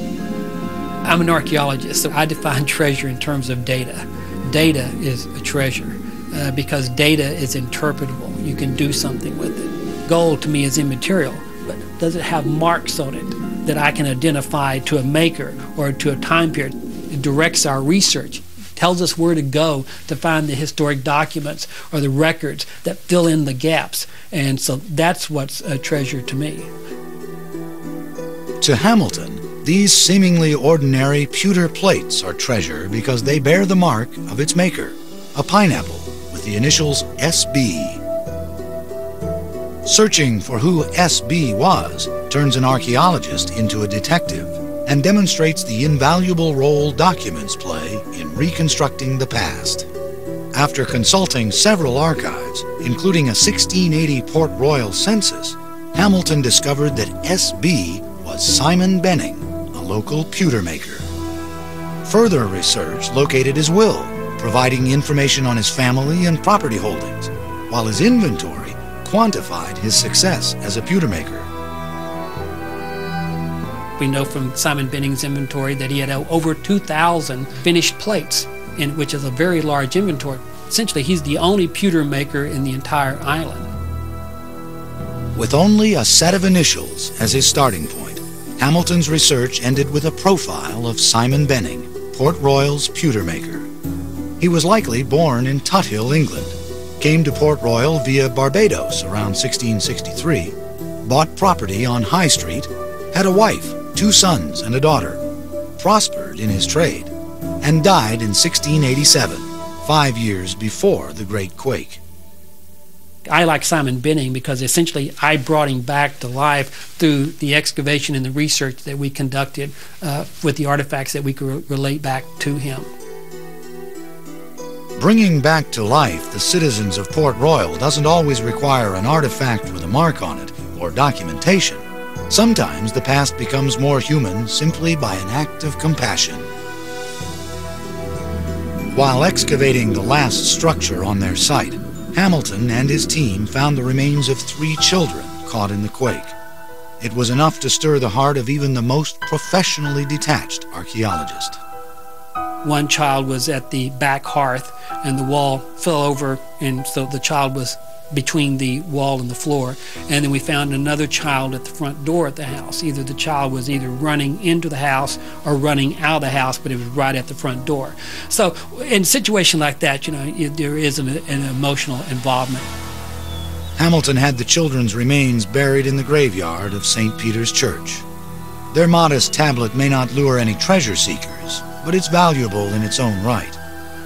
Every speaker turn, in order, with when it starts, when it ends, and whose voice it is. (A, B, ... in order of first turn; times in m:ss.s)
0:01.0-0:26.7 A
0:28.6-0:38.0 B
0:39.8-0:49.9 B
0:50.5-1:01.1 B
1:02.0-1:11.5 B
1:14.0-1:23.7 A
1:25.4-1:33.7 B
1:34.4-1:45.2 B
1:45.8-1:52.0 B
1:53.3-2:02.9 A
2:05.0-2:16.5 B
2:18.9-2:26.4 B
2:27.0-2:31.6 B
2:32.6-2:52.7 A
2:53.8-2:58.1 B
2:58.7-3:03.6 B